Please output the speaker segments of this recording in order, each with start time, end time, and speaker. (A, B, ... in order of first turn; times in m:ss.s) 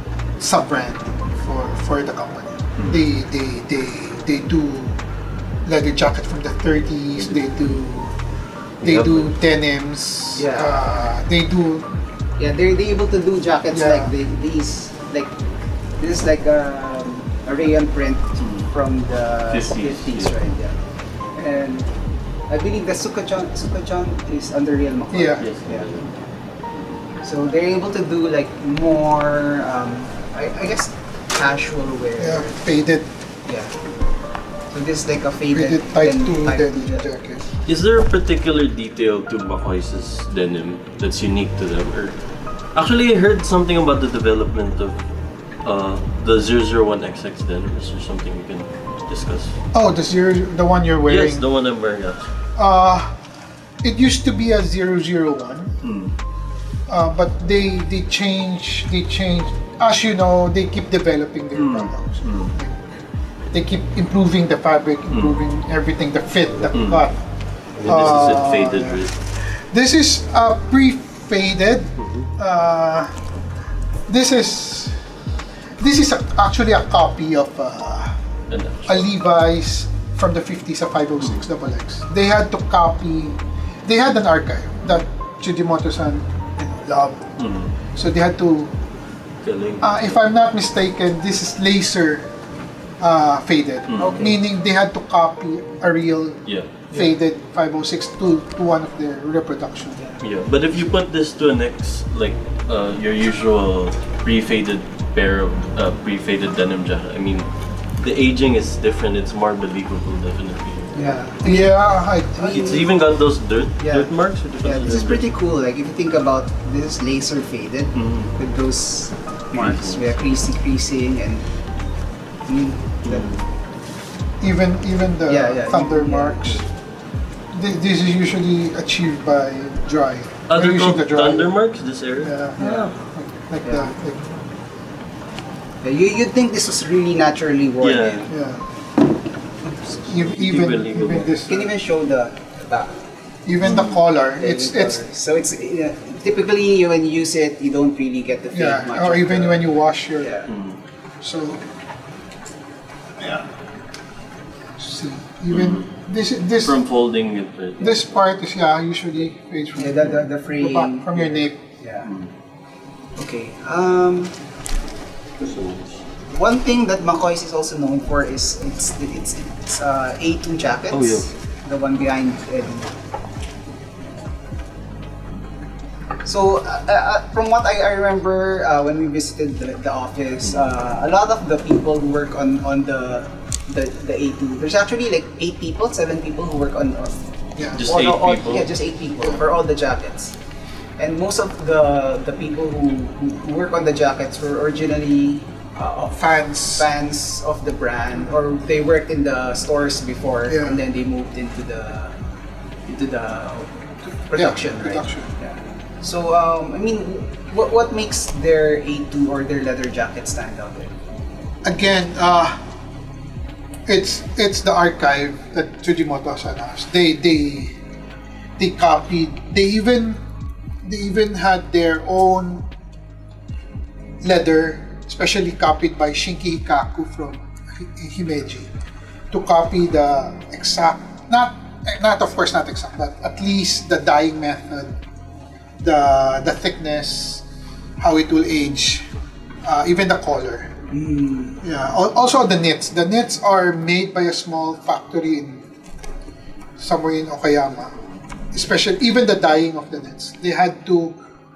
0:00.4-0:05.0 A
0:05.6-0:08.1 A
0:07.2-0:07.8 B
0:08.8-0:09.3 B
0:08.8-0:12.0 A
0:10.4-0:10.8 C
0:12.4-0:15.3 C
0:13.7-0:14.1 A
0:16.0-0:20.8 C
0:18.4-0:18.7 B
0:19.5-0:20.4 B
0:21.3-0:21.9 C
0:22.5-0:26.1 C
0:25.1-0:25.4 A
0:25.4-0:26.2 B
0:26.7-0:27.0 B
0:27.2-0:32.6 C
0:32.2-0:33.1 A
0:33.4-0:33.8 C
0:34.7-0:37.1 C
0:35.5-0:37.4 A
0:37.7-0:42.2 B
0:42.7-0:45.0 B
0:45.6-0:49.6 B
0:49.7-0:51.4 A
0:51.1-0:52.3 B
0:52.6-0:53.2 A
0:53.8-0:55.7 A
0:55.8-0:56.1 B
0:56.9-1:03.0 A
1:01.5-1:02.5 B
1:03.5-1:07.2 A
1:05.1-1:05.4 B
1:06.7-1:07.0 B
1:07.8-1:09.1 B
1:07.8-1:13.1 A
1:12.0-1:12.3 B
1:14.1-1:15.0 A
1:15.8-1:18.2 A
1:18.5-1:19.1 B
1:18.9-1:27.3 A
1:27.4-1:27.8 B
1:27.9-1:28.7 A
1:29.4-1:30.1 B
1:29.8-1:32.3 A
1:33.0-1:36.4 A
1:33.9-1:34.3 B
1:34.0-1:34.4 C
1:36.5-1:37.1 B
1:36.9-1:40.0 A
1:40.0-1:40.2 C
1:40.2-1:47.5 B
1:48.0-1:51.2 B
1:50.9-1:51.7 C
1:51.4-1:52.8 A
1:52.4-1:52.9 C
1:52.4-1:55.3 B
1:53.8-1:54.1 C
1:54.6-2:01.5 C
1:58.0-1:58.3 B
1:59.6-2:00.4 B
2:02.5-2:03.3 C
2:03.1-2:03.4 B
2:04.4-2:06.6 A
2:05.3-2:06.6 C
2:07.5-2:11.5 A
2:10.5-2:12.8 B
2:12.2-2:14.4 A
2:12.6-2:12.9 C
2:13.6-2:13.9 C
2:15.8-2:18.4 C
2:17.8-2:18.3 B
2:18.3-2:18.6 A
2:19.6-2:20.0 C
2:20.1-2:21.7 A
2:20.1-2:21.4 B
2:21.5-2:23.0 C
2:23.5-2:25.0 A
2:23.6-2:24.0 B
2:24.4-2:30.5 C
2:28.5-2:30.4 A
2:30.5-2:30.8 B
2:31.2-2:31.6 A
2:33.2-2:33.5 A
2:34.8-2:36.8 A
2:35.5-2:35.9 B
2:36.6-2:38.0 B
2:37.8-2:41.6 A
2:39.8-2:42.1 C
2:43.2-2:44.4 C
2:45.4-2:46.0 B
2:46.2-2:52.9 C
2:50.9-2:51.3 B
2:56.2-3:10.4 C
3:07.6-3:07.8 A
3:07.8-3:08.8 B
3:11.0-3:22.2 C
3:16.1-3:16.9 A
3:20.5-3:20.8 A
3:22.9-3:23.7 C
3:24.3-3:30.9 C
3:24.3-3:25.3 A
3:31.6-3:32.6 A
3:33.9-3:37.8 A
3:38.6-3:40.2 A
3:40.8-3:42.7 A
3:44.2-3:48.7 A
3:49.3-3:55.0 A
3:55.8-3:57.4 A
3:58.0-3:59.1 A
3:59.6-4:00.7 A
4:00.9-4:01.6 C
4:01.6-4:05.7 A
4:06.8-4:08.0 A
4:08.5-4:11.1 A